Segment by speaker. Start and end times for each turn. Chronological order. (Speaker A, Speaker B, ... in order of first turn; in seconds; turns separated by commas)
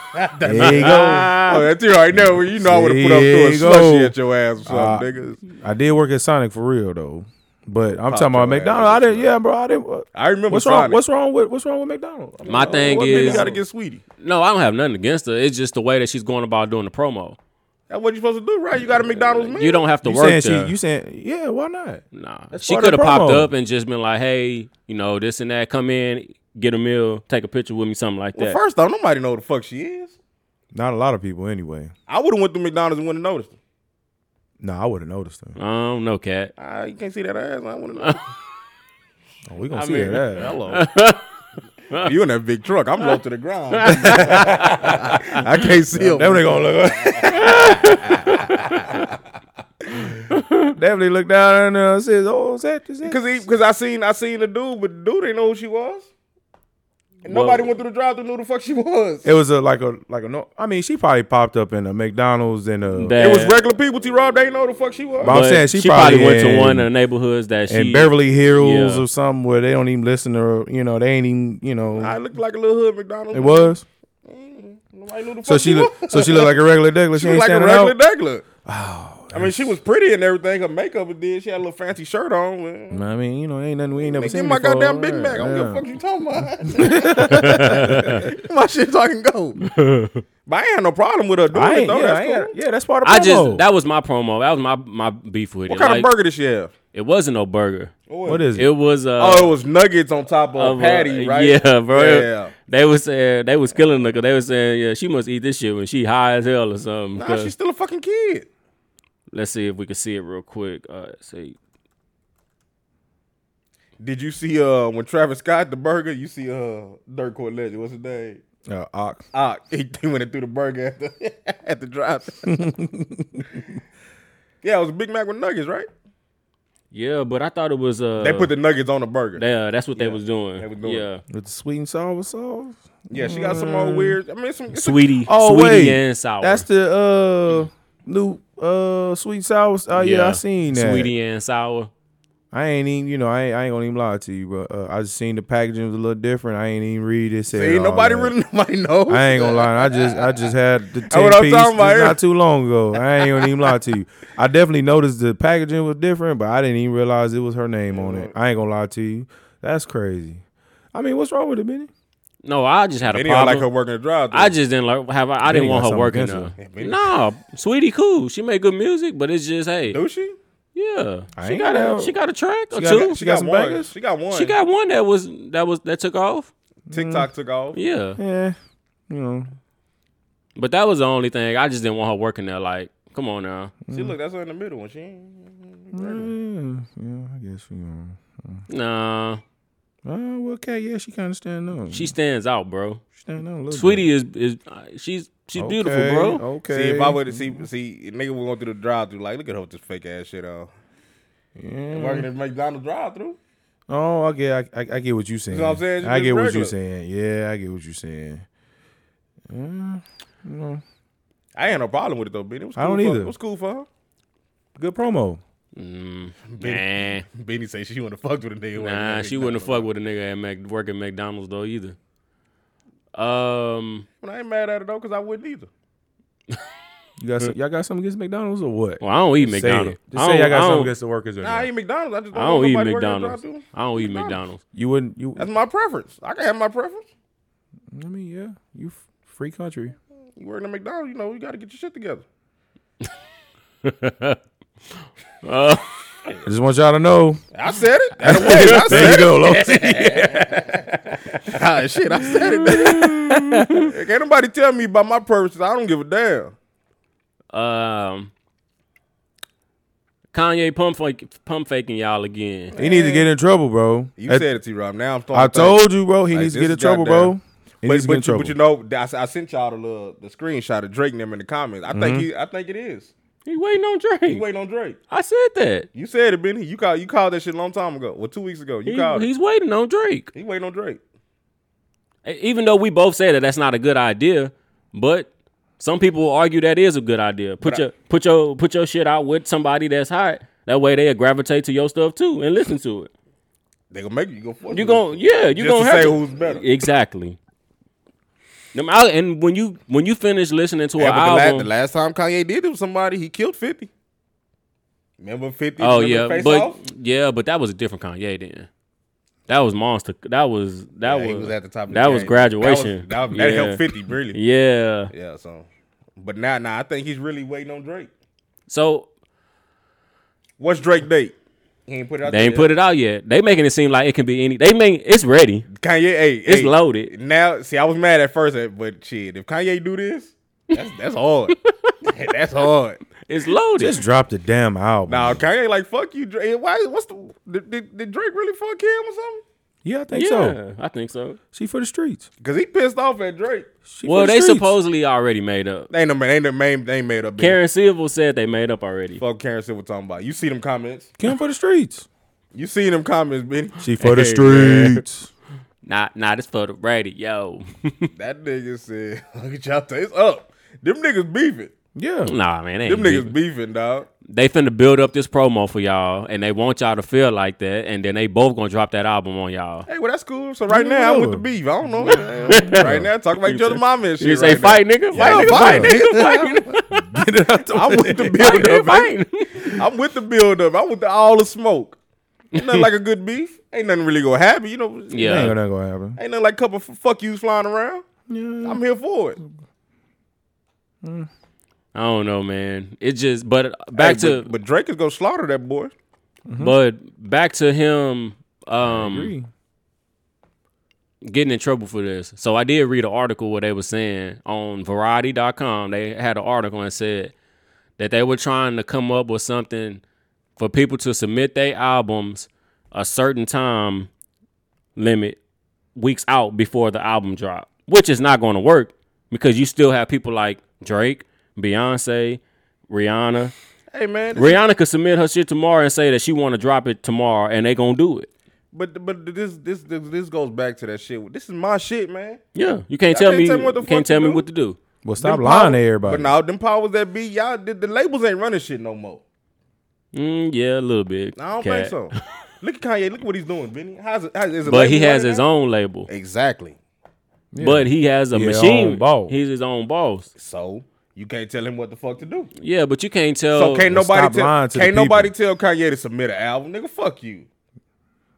Speaker A: 0.1-5.4, Speaker B: 0.4-1.4, Speaker C: 0.6-1.7, Speaker B: 2.1-13.6, Speaker A: 8.1-9.3, Speaker A: 10.1-11.0, Speaker C: 12.5-13.5, Speaker A: 12.5-14.0, Speaker C: 14.2-17.4, Speaker A: 17.9-19.9, Speaker C: 19.0-20.8, Speaker B: 20.0-23.5, Speaker C: 22.1-28.6, Speaker A: 28.4-30.2, Speaker B: 30.7-31.9, Speaker A: 32.1-33.6, Speaker B: 34.6-35.6, Speaker C: 35.6-36.5, Speaker A: 36.6-38.3, Speaker B: 39.5-40.6, Speaker C: 39.8-41.3, Speaker A: 39.9-40.8, Speaker A: 41.9-49.1, Speaker C: 43.7-44.9, Speaker B: 44.0-45.2, Speaker B: 45.9-47.9, Speaker C: 47.3-49.0, Speaker C: 50.3-50.7, Speaker B: 50.7-53.4, Speaker A: 53.0-56.1, Speaker A: 57.2-59.3, Speaker C: 57.3-57.7, Speaker B: 59.2-63.1, Speaker C: 63.0-63.6, Speaker A: 63.2-65.4, Speaker B: 65.2-66.9, Speaker C: 65.3-69.1, Speaker B: 67.7-72.2, Speaker A: 72.0-73.7, Speaker B: 73.3-73.8, Speaker A: 74.3-76.6, Speaker B: 75.4-78.0, Speaker A: 77.1-78.5, Speaker B: 78.7-79.8, Speaker A: 79.3-83.0, Speaker B: 82.9-85.8, Speaker A: 84.0-89.6, Speaker B: 86.7-88.2, Speaker C: 87.2-88.2, Speaker C: 89.6-90.2, Speaker A: 90.5-92.5, Speaker B: 91.5-93.6, Speaker C: 93.0-96.1, Speaker A: 95.7-96.7, Speaker C: 96.9-97.9, Speaker A: 98.1-98.5, Speaker B: 98.2-98.7, Speaker C: 98.6-99.5, Speaker A: 99.2-102.5, Speaker C: 100.6-107.5, Speaker A: 107.2-108.5, Speaker C: 109.3-111.6, Speaker A: 114.0-118.4, Speaker B: 118.7-119.2, Speaker A: 119.3-122.6, Speaker B: 122.5-123.6, Speaker A: 124.6-125.9, Speaker C: 126.9-128.5, Speaker A: 128.2-129.4, Speaker C: 129.4-131.2, Speaker A: 129.9-131.1, Speaker B: 131.3-134.2, Speaker A: 133.1-135.1, Speaker C: 134.7-136.7, Speaker B: 135.2-141.1, Speaker C: 139.9-141.9, Speaker B: 142.5-148.3, Speaker A: 147.5-150.5, Speaker B: 149.1-160.4, Speaker A: 151.1-152.2, Speaker A: 152.9-153.8, Speaker A: 157.9-158.3, Speaker B: 160.9-161.9, Speaker C: 162.4-163.7, Speaker A: 163.1-164.6, Speaker C: 164.3-170.0, Speaker B: 165.4-166.5, Speaker A: 166.6-167.1, Speaker A: 169.9-170.4, Speaker C: 170.8-173.2, Speaker B: 171.4-172.1, Speaker B: 172.7-173.9, Speaker A: 172.9-174.6, Speaker C: 174.3-176.5, Speaker B: 176.9-177.3, Speaker A: 176.9-177.8, Speaker C: 177.7-178.2, Speaker B: 178.2-178.6, Speaker B: 179.1-179.5, Speaker C: 180.6-183.7, Speaker B: 183.9-184.2, Speaker A: 183.9-186.3, Speaker B: 185.9-188.6, Speaker C: 188.7-189.4, Speaker B: 190.1-192.1, Speaker C: 191.9-193.0, Speaker B: 193.2-194.1, Speaker C: 193.7-196.4, Speaker B: 195.6-197.7, Speaker A: 196.7-200.7, Speaker B: 201.6-202.3, Speaker A: 201.9-203.4, Speaker B: 203.9-208.4, Speaker A: 205.5-206.8, Speaker B: 209.5-210.8, Speaker A: 211.6-213.9, Speaker B: 212.8-213.3, Speaker B: 214.8-215.4, Speaker C: 215.8-217.3, Speaker A: 216.5-219.9, Speaker C: 218.8-222.0, Speaker C: 223.1-224.1, Speaker A: 224.2-225.7, Speaker B: 227.2-231.7, Speaker C: 229.0-230.9, Speaker A: 231.4-234.4, Speaker C: 232.3-234.6, Speaker B: 234.7-235.5, Speaker A: 235.4-237.1, Speaker B: 237.9-240.0, Speaker A: 240.4-242.2, Speaker C: 243.8-244.4, Speaker C: 245.4-246.0, Speaker B: 246.5-247.4, Speaker A: 247.5-256.5, Speaker B: 248.2-250.7, Speaker C: 248.3-249.1, Speaker C: 252.2-253.9, Speaker B: 252.7-253.4, Speaker C: 257.5-258.3, Speaker C: 260.3-262.7, Speaker A: 262.7-263.3, Speaker B: 262.8-264.4, Speaker A: 264.2-273.1, Speaker B: 265.3-268.5, Speaker B: 271.9-272.3, Speaker C: 273.5-274.4, Speaker A: 274.3-275.0, Speaker C: 275.1-275.9, Speaker A: 275.9-279.3, Speaker C: 278.9-280.3, Speaker A: 280.3-281.0, Speaker C: 282.2-293.1, Speaker A: 293.9-296.7, Speaker C: 294.7-297.4, Speaker C: 298.7-301.7, Speaker A: 301.0-303.9, Speaker A: 305.2-306.8, Speaker C: 305.8-308.7, Speaker C: 309.5-315.1, Speaker A: 311.0-314.4, Speaker A: 315.1-318.1, Speaker C: 318.7-319.1, Speaker A: 320.6-321.4, Speaker A: 321.9-322.7, Speaker C: 322.2-325.7, Speaker A: 325.7-333.0, Speaker C: 326.5-327.1, Speaker C: 331.6-332.1, Speaker C: 333.2-334.0, Speaker B: 333.8-335.4, Speaker A: 335.1-339.4, Speaker B: 339.9-340.6, Speaker C: 340.1-341.4, Speaker B: 341.5-342.3, Speaker A: 342.4-343.7, Speaker B: 343.9-344.8, Speaker C: 344.1-345.9, Speaker A: 345.9-347.6, Speaker C: 347.4-349.2, Speaker A: 349.2-351.1, Speaker B: 351.2-352.1, Speaker A: 352.5-353.8, Speaker B: 353.8-355.3, Speaker C: 354.0-355.0, Speaker C: 355.8-358.1, Speaker A: 358.1-361.7, Speaker B: 361.9-362.3, Speaker C: 362.2-363.3, Speaker A: 362.9-364.1, Speaker C: 364.3-369.9, Speaker A: 369.9-376.7, Speaker B: 370.7-371.4, Speaker C: 372.5-372.8, Speaker B: 372.7-373.1, Speaker C: 373.4-377.1, Speaker B: 375.2-376.0, Speaker B: 376.9-378.6, Speaker A: 377.7-382.0, Speaker C: 378.4-379.8, Speaker C: 382.6-382.9, Speaker A: 382.6-385.6, Speaker C: 385.1-385.5, Speaker B: 385.2-386.2, Speaker A: 386.2-388.1, Speaker B: 388.3-388.8, Speaker A: 388.6-389.4, Speaker B: 391.0-391.3, Speaker C: 391.9-394.5, Speaker A: 394.0-395.9, Speaker B: 396.5-396.8, Speaker C: 396.6-399.3, Speaker B: 398.8-399.5, Speaker C: 401.2-407.3, Speaker C: 408.0-410.0, Speaker C: 410.6-414.1, Speaker C: 415.0-415.4, Speaker C: 416.0-423.5, Speaker A: 423.9-424.6, Speaker C: 424.4-428.3, Speaker A: 428.7-432.4, Speaker C: 432.6-434.8, Speaker A: 433.1-434.4, Speaker B: 435.1-436.3, Speaker A: 435.2-439.2, Speaker C: 440.1-442.1, Speaker A: 441.4-445.4, Speaker C: 444.7-446.1, Speaker A: 446.1-446.8, Speaker B: 447.5-449.4, Speaker C: 447.6-450.3, Speaker A: 450.4-452.5, Speaker C: 452.6-453.9, Speaker A: 453.5-457.5, Speaker B: 453.9-455.3